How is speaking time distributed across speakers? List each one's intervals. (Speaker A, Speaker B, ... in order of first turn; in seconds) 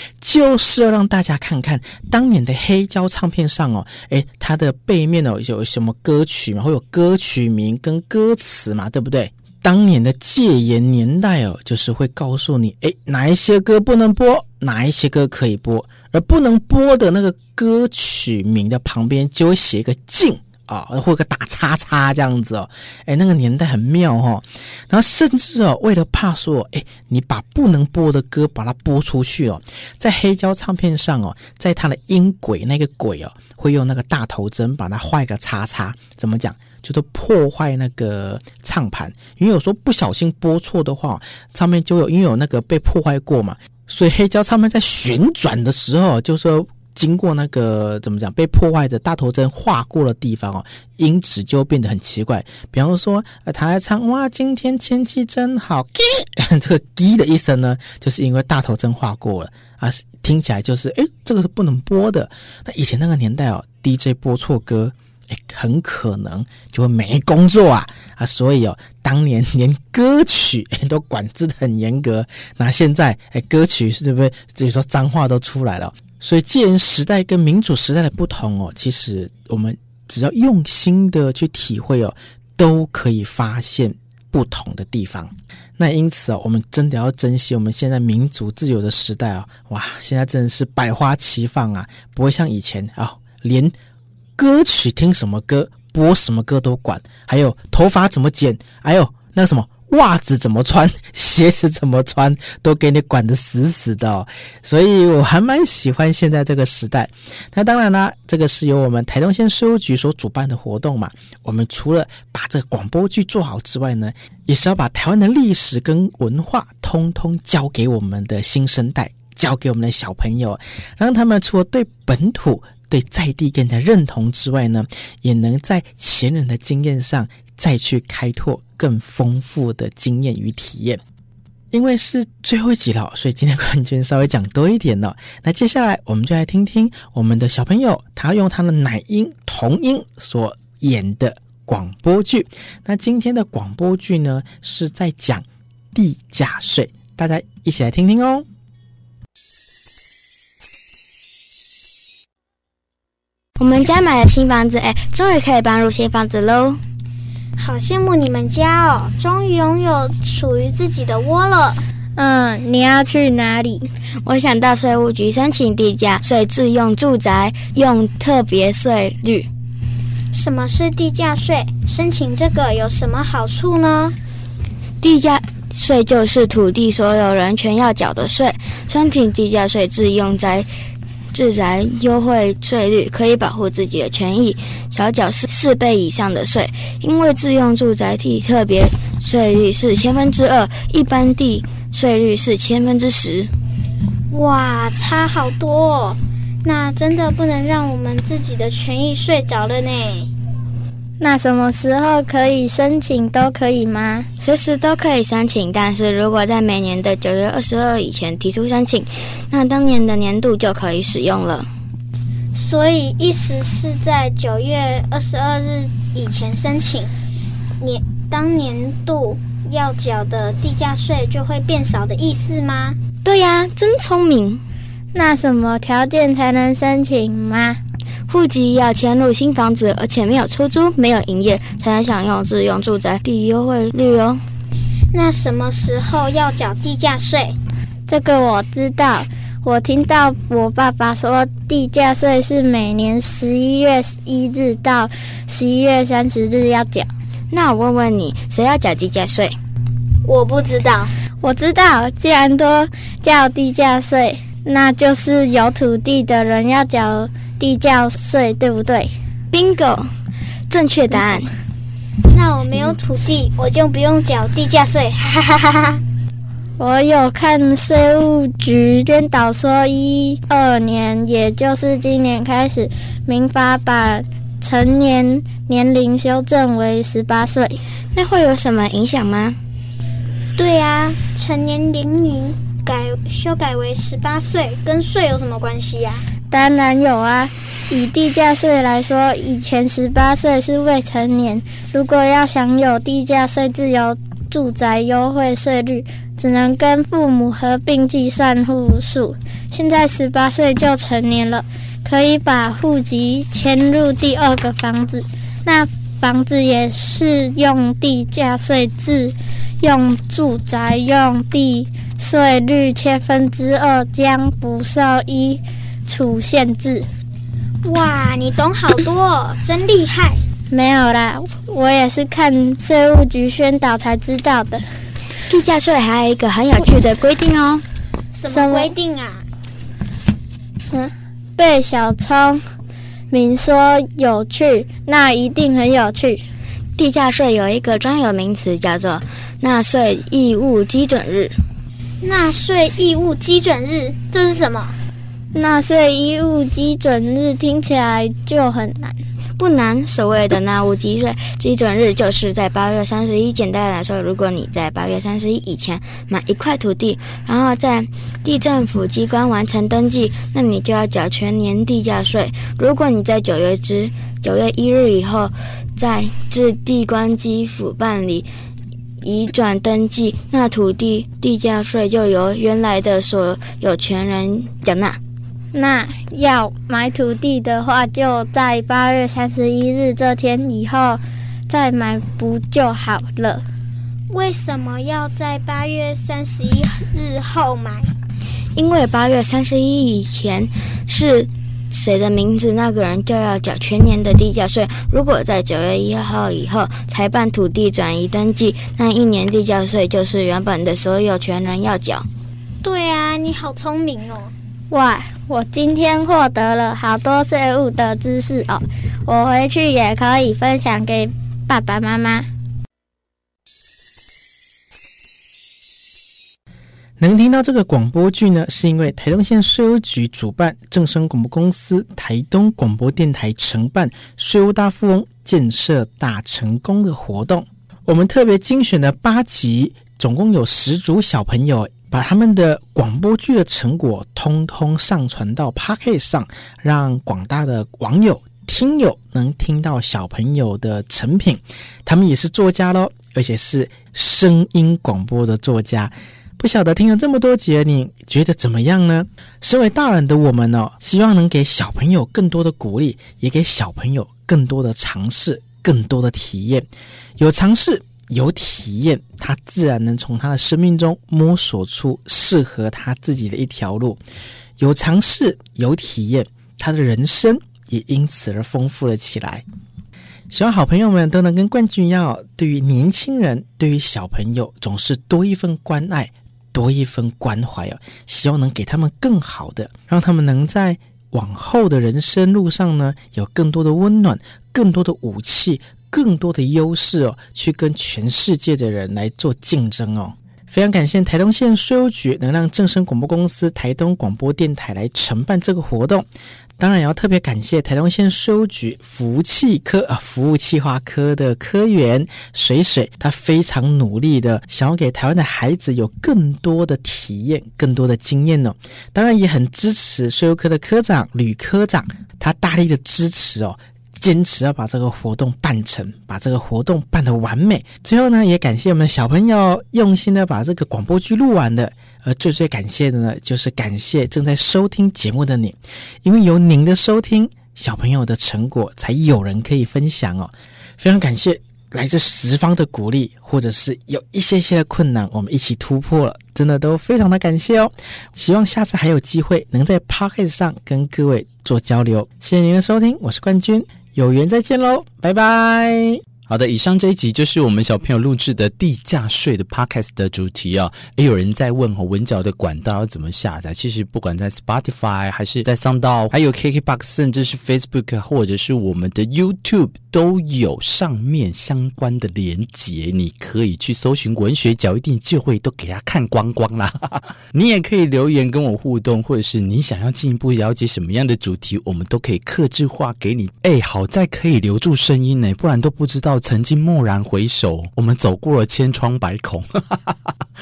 Speaker A: 0.2-93.7, 94.4-131.0, 131.7-148.4, 417.2-464.2, 464.8-469.6, 470.5-546.2
Speaker B: 153.6-156.8, 164.2-169.5, 175.0-180.7, 181.3-193.5, 204.4-211.7, 223.2-224.6, 228.3-234.4, 247.5-249.6, 259.5-260.1, 260.7-261.5, 278.1-279.6, 325.5-327.8, 336.9-341.6, 349.6-368.5, 369.2-375.2, 388.7-402.3
Speaker C: 157.6-161.8, 170.3-174.2, 194.3-200.3, 212.5-217.1, 217.8-223.0, 235.1-237.6, 250.2-251.1, 262.3-266.0, 280.6-286.2, 317.8-320.4, 328.3-329.4, 342.2-344.9, 384.3-388.1, 402.8-404.5
Speaker D: 162.2-163.9, 201.2-204.3, 225.1-227.8, 238.1-247.1, 251.4-259.1, 266.8-277.8, 286.5-317.1, 320.7-324.8, 328.4-328.9, 330.9-332.6, 333.3-336.4, 345.5-349.2, 375.7-383.6, 404.9-412.5
Speaker E: 546.5-580.1